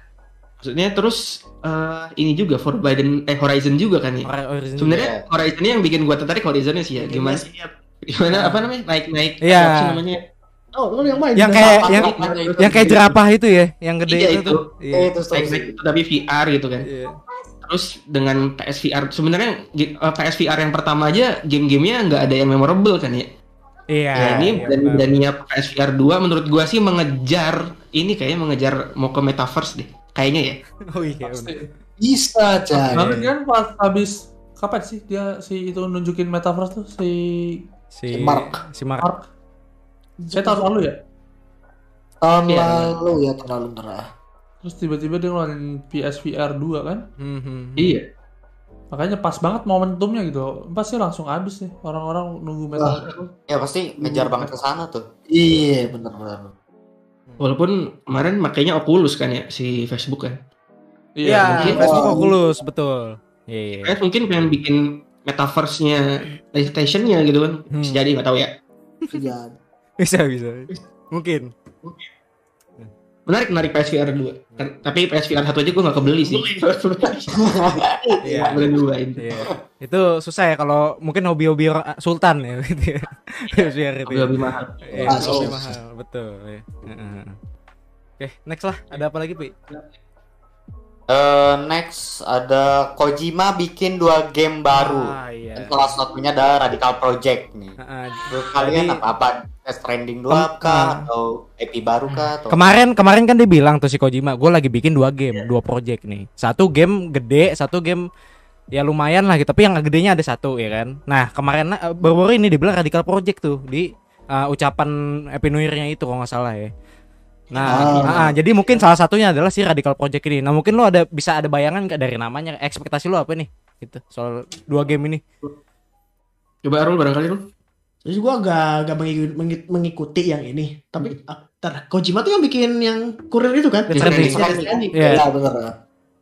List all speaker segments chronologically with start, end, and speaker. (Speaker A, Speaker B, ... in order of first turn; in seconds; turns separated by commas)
Speaker A: 0.6-7.4, Speaker B: 4.2-5.0, Speaker C: 5.0-5.2, Speaker D: 7.0-7.7, Speaker A: 8.1-10.2, Speaker B: 9.4-10.0, Speaker D: 10.8-13.0, Speaker B: 11.3-15.5, Speaker C: 11.6-12.8, Speaker A: 12.0-13.1, Speaker A: 14.1-14.6, Speaker C: 14.9-15.7, Speaker A: 15.3-16.9, Speaker B: 16.8-17.2, Speaker A: 17.7-23.3, Speaker B: 23.9-25.1, Speaker A: 24.2-30.6, Speaker B: 30.9-31.7, Speaker E: 31.2-31.6, Speaker F: 32.0-33.0, Speaker B: 32.8-33.3, Speaker E: 32.9-37.6, Speaker B: 37.9-39.1, Speaker F: 38.1-38.6, Speaker E: 40.3-40.9, Speaker F: 42.2-44.0, Speaker A: 42.5-42.9, Speaker E: 44.6-47.0, Speaker B: 47.2-48.0, Speaker A: 47.8-48.0, Speaker E: 48.9-53.3, Speaker F: 52.8-53.1, Speaker C: 53.5-55.0, Speaker F: 55.3-56.5, Speaker A: 57.4-60.4, Speaker E: 61.2-61.7, Speaker B: 61.2-63.9, Speaker A: 61.5-62.0, Speaker F: 61.6-62.4, Speaker A: 63.8-66.0, Speaker A: 66.5-68.5, Speaker B: 67.7-68.0, Speaker F: 69.1-69.6, Speaker B: 70.0-71.5, Speaker A: 73.3-77.4, Speaker D: 76.2-77.2, Speaker C: 77.5-77.9, Speaker A: 78.2-79.2, Speaker B: 78.2-78.7, Speaker B: 79.2-87.4, Speaker A: 84.1-85.5, Speaker F: 85.1-85.8, Speaker B: 88.2-89.5, Speaker C: 91.1-97.8, Speaker B: 94.7-95.8, Speaker B: 97.8-99.0, Speaker C: 98.3-102.7, Speaker B: 100.3-101.1, Speaker B: 102.1-108.0, Speaker B: 108.7-116.7, Speaker B: 117.5-125.2, Speaker D: 117.7-118.0, Speaker F: 117.7-118.4, Speaker A: 126.6-127.4, Speaker D: 128.1-134.9, Speaker A: 133.9-135.2, Speaker B: 134.0-134.3, Speaker C: 134.2-134.7, Speaker B: 134.9-135.2, Speaker F: 135.1-135.7